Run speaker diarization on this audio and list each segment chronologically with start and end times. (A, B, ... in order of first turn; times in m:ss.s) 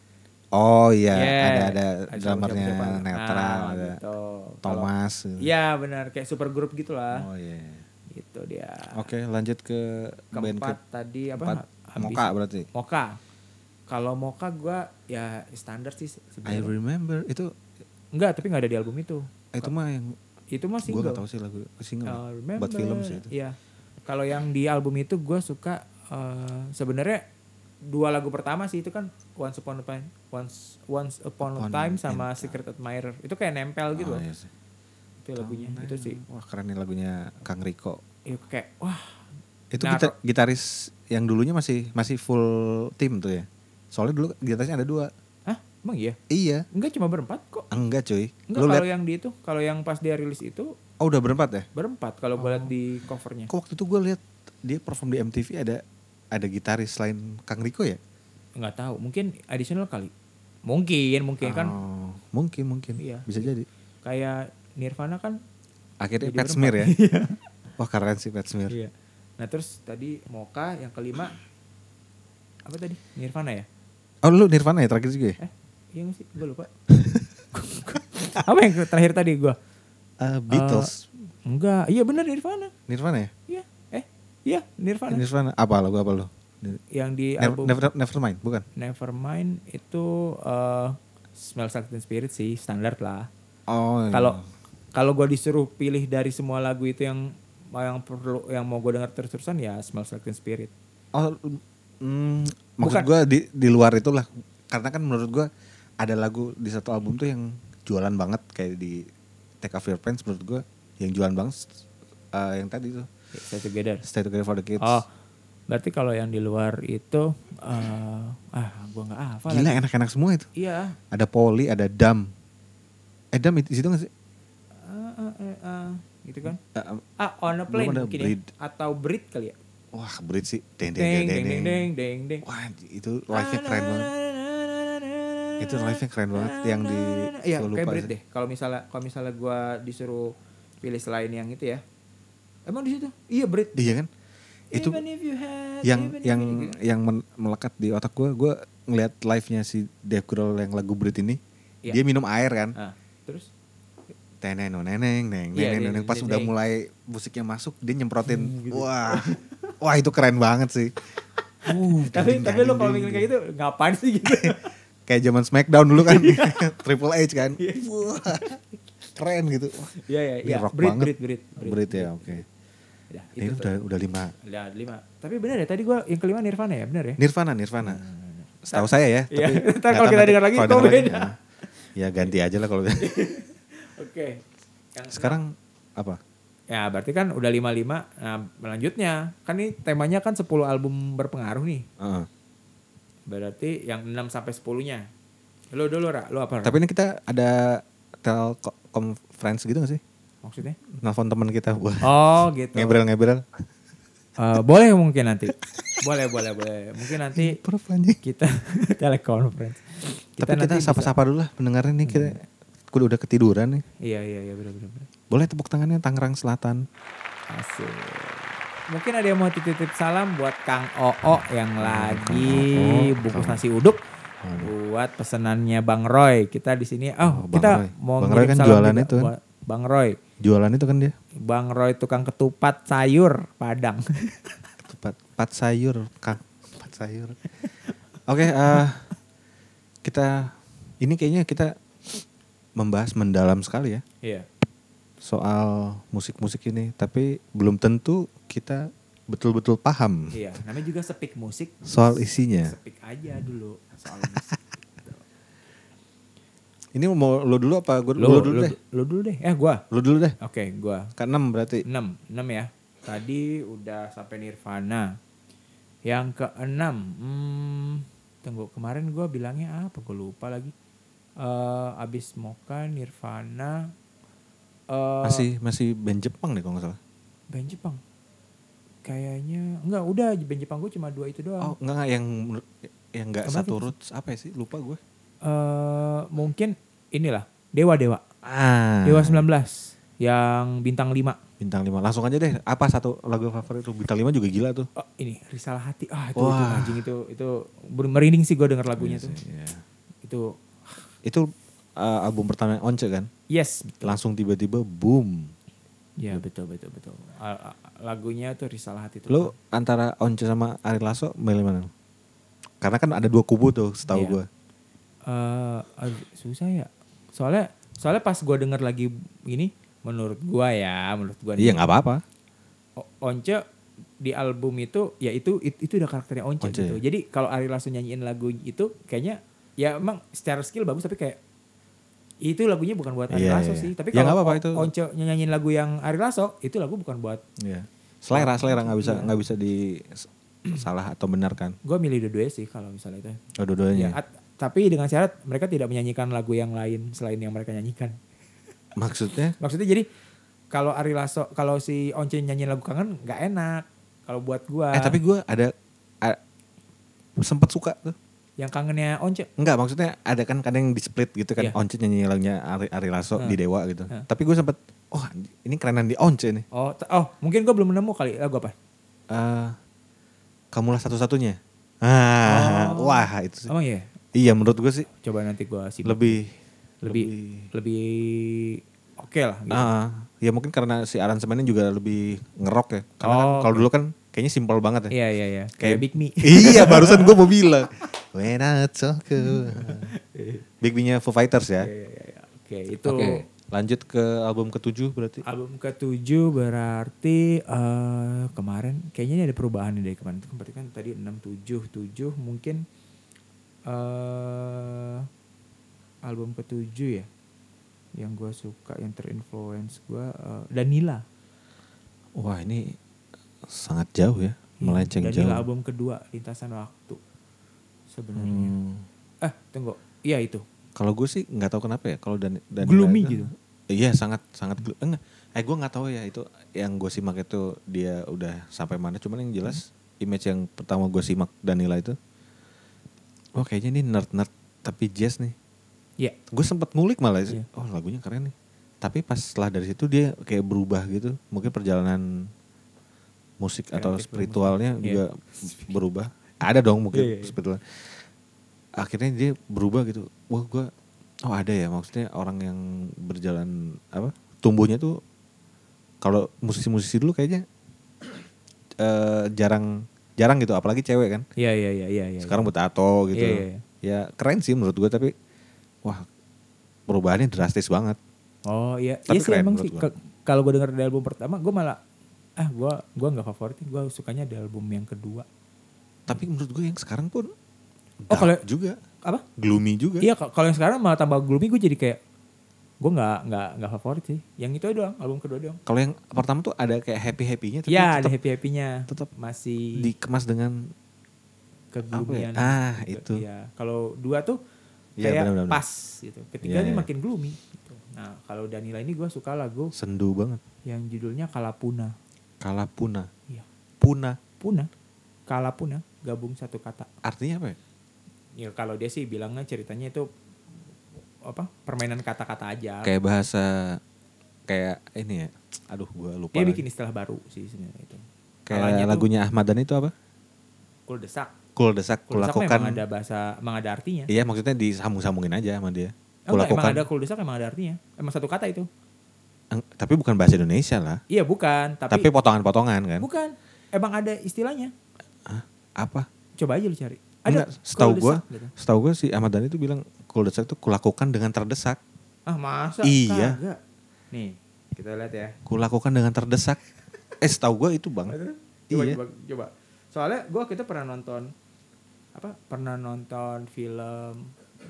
0:00.5-0:04.0 A
0:01.1-0:07.3 B
0:04.6-0:05.5 A
0:07.1-0:07.8 A
0:08.1-0:09.0 B
0:08.9-0:10.8 A
0:10.3-0:13.2 B
0:11.3-0:12.7 A
0:13.9-0:16.7 B
0:16.4-0:17.5 A
0:18.1-0:19.7 B
0:19.5-0:20.2 A
0:20.5-0:21.2 B
0:20.8-0:23.3 A
0:22.0-0:27.2 B
0:27.8-0:34.2 B
0:31.5-0:32.6 A
0:33.9-0:34.5 A
0:35.2-0:36.2 B
0:35.4-0:38.0 A
0:38.3-0:39.2 B
0:39.7-0:45.1 A
0:39.8-0:40.1 B
0:45.5-0:46.2 B
0:46.3-0:46.6 A
0:46.7-0:47.7 B
0:47.7-0:48.8 A
0:48.5-0:50.7 B
0:51.0-0:51.7 A
0:51.7-0:53.5 B
0:52.4-0:52.7 A
0:53.5-0:58.0 A
0:58.6-1:00.1 B
1:00.7-1:01.8 B
1:01.4-1:03.6 A
1:03.0-1:03.4 B
1:04.0-1:05.4 B
1:06.0-1:06.9 A
1:06.2-1:07.4 B
1:07.8-1:08.8 A
1:08.7-1:11.4 B
1:12.6-1:13.7 B
1:14.2-1:15.4 A
1:15.4-1:16.7 B
1:16.9-1:17.3 A
1:17.5-1:19.6 B
1:20.2-1:21.0 A
1:20.5-1:20.9 B
1:21.4-1:22.7 B
1:22.9-1:23.3 A
1:23.5-1:25.2 B
1:25.1-1:26.8 A
1:26.9-1:27.8 B
1:27.4-1:28.6 A
1:28.8-1:33.3 B
1:33.7-1:34.4 A
1:34.1-1:34.4 B
1:34.9-1:40.7 B
1:41.1-1:45.5 A
1:42.8-1:43.1 B
1:46.0-1:49.0 A
1:49.6-1:51.8 A
1:52.3-1:53.1 A
1:53.3-1:54.0 B
1:54.0-1:55.0 A
1:54.8-1:55.0 B
1:55.7-1:59.8 B
1:59.5-2:00.5 A
2:00.6-2:01.0 B
2:01.1-2:02.3 A
2:03.3-2:04.1 A
2:04.8-2:06.6 B
2:06.7-2:07.0 A
2:07.2-2:09.6 B
2:07.7-2:08.4 A
2:09.9-2:11.9 A
2:11.0-2:12.4 B
2:12.4-2:14.1 A
2:13.3-2:21.8 B
2:15.6-2:18.1 A
2:22.6-2:23.9 B
2:23.7-2:24.1 A
2:24.7-2:26.8 B
2:24.7-2:25.0 A
2:25.8-2:32.7 A
2:32.7-2:33.5 B
2:34.4-2:40.9 A
2:35.5-2:36.5 B
2:38.2-2:39.7 B
2:41.6-2:43.3 A
2:41.7-2:44.7 B
2:44.3-2:48.6 A
2:46.0-2:46.7 B
2:47.4-2:48.6 B
2:49.1-2:52.4 A
2:49.9-2:52.4 B
2:53.1-2:53.7 B
2:53.4-2:54.3 A
2:54.4-2:57.2 B
2:57.2-2:58.0 A
2:57.8-3:01.3 B
2:58.6-3:01.3 A
3:01.9-3:03.1 A
3:03.0-3:04.4 B
3:04.9-3:05.4 B
3:05.1-3:06.2 A
3:06.7-3:11.9 B
3:12.0-3:12.3 A
3:13.3-3:15.1 B
3:15.7-3:16.8 B
3:16.6-3:20.0 A
3:20.4-3:20.8 B
3:20.9-3:23.5 A
3:22.0-3:23.0 B
3:24.4-3:27.6 B
3:27.1-3:28.2 A
3:28.2-3:31.1 B
3:30.4-3:33.8 A
3:32.0-3:32.4 B
3:34.0-3:35.1 B
3:35.3-3:36.8 A
3:37.5-3:44.0 B
3:41.8-3:43.6 A
3:44.4-3:44.7 A
3:44.6-3:50.2 B
3:47.2-3:49.3 A
3:50.4-3:51.1 A
3:51.4-3:54.6 B
3:54.8-3:57.4 A
3:57.6-3:57.9 B
3:58.2-3:59.1 A
4:00.0-4:02.2 A
4:02.8-4:04.0 A
4:05.2-4:10.3 A
4:10.3-4:15.2 B
4:11.8-4:12.7 A
4:16.9-4:18.8 A
4:18.2-4:19.8 B
4:19.9-4:20.4 A
4:20.4-4:21.1 B
4:21.2-4:21.8 A
4:21.8-4:25.1 B
4:26.0-4:30.7 B
4:31.4-4:33.9 B
4:34.9-4:35.5 B
4:35.2-4:37.0 A
4:37.5-4:38.0 B
4:39.0-4:41.7 B
4:41.6-4:45.0 A
4:43.4-4:43.9 B
4:45.4-4:48.2 B
4:48.4-4:49.5 A
4:49.0-4:51.4 B
4:51.6-4:54.9 A
4:55.0-4:59.4 B
4:56.4-4:57.0 A
4:58.9-4:59.8 A
5:00.2-5:01.0 B
5:02.0-5:03.3 A
5:03.5-5:04.2 B
5:04.0-5:05.5 A
5:06.2-5:09.5 B
5:09.3-5:11.9 A
5:12.8-5:14.5 A
5:14.1-5:14.4 B
5:15.3-5:21.8 B
5:21.6-5:22.2 A
5:23.0-5:23.6 B
5:24.2-5:31.4 B
5:26.6-5:27.0 A
5:32.4-5:37.4 B
5:33.3-5:34.9 A
5:37.6-5:41.8 A
5:38.3-5:39.3 B
5:41.8-5:43.4 B
5:43.6-5:44.2 A
5:43.9-5:48.2 B
5:49.0-5:49.5 A
5:49.6-5:50.0 B
5:50.7-5:55.2 B
5:54.9-5:56.4 A
5:57.4-5:58.2 A
5:58.6-5:59.5 B
5:59.6-6:06.6 A
6:06.7-6:08.7 B
6:09.3-6:09.8 A
6:10.7-6:13.7 A
6:12.4-6:14.1 B
6:14.3-6:15.1 A
6:15.1-6:16.4 B
6:16.0-6:17.7 A
6:17.0-6:19.9 B
6:19.7-6:25.1 A
6:23.2-6:23.8 B
6:25.1-6:27.5 B
6:25.8-6:30.1 A
6:29.4-6:30.6 B
6:30.8-6:31.9 A
6:31.8-6:33.4 B
6:33.0-6:35.4 A
6:35.4-6:42.8 B
6:43.9-6:45.2 B
6:46.2-6:47.3 B
6:48.2-6:51.2 B
6:52.4-6:53.0 A
6:53.6-6:55.6 A
6:54.8-6:57.2 B
6:58.1-6:58.7 B
6:58.4-6:59.1 A
6:59.4-7:00.6 B
7:00.9-7:12.2 A
7:02.8-7:03.5 B
7:13.6-7:15.6 A
7:16.5-7:22.5 A
7:23.6-7:28.2 A
7:23.9-7:25.8 B
7:27.1-7:27.5 B
7:29.0-7:30.9 A
7:31.4-7:35.2 A
7:36.2-7:37.6 A
7:39.0-7:41.4 A
7:41.6-7:42.7 B
7:42.4-7:45.3 A
7:43.3-7:43.8 B
7:47.1-7:48.2 A
7:48.6-7:52.0 B
7:49.3-7:50.1 A
7:52.6-7:55.4 B
7:56.3-7:57.5 A
7:58.2-7:59.0 A
7:58.3-7:58.6 B
7:59.6-8:00.3 A
8:00.2-8:02.2 B
8:03.0-8:05.8 B
8:05.8-8:08.3 A
8:07.9-8:10.1 B
8:10.0-8:10.9 A
8:11.9-8:14.6 B
8:12.1-8:13.4 A
8:15.2-8:15.8 A
8:15.2-8:19.9 B
8:16.6-8:17.1 A
8:19.9-8:20.6 A
8:20.8-8:22.1 B
8:22.6-8:23.3 A
8:24.0-8:24.4 A
8:24.6-8:24.9 B
8:25.5-8:27.1 B
8:27.2-8:27.8 A
8:28.6-8:30.3 B
8:31.4-8:33.1 B
8:33.0-8:34.0 A
8:34.7-8:36.8 A
8:36.5-8:39.2 B
8:38.7-8:40.1 A
8:41.1-8:41.5 B
8:41.8-8:43.0 A
8:42.3-8:44.3 B
8:44.3-8:47.0 A
8:46.5-8:48.9 B
8:49.7-8:51.2 A
8:51.3-8:52.3 B
8:52.1-8:53.2 A
8:53.2-8:54.9 B
8:55.4-8:56.2 A
8:56.6-8:58.7 B
8:57.5-9:02.0 A
9:02.5-9:03.8 B
9:03.0-9:03.6 A
9:04.3-9:05.6 B
9:05.6-9:06.8 A
9:07.4-9:08.4 A
9:08.3-9:11.5 B
9:08.9-9:09.2 A
9:12.3-9:14.5 B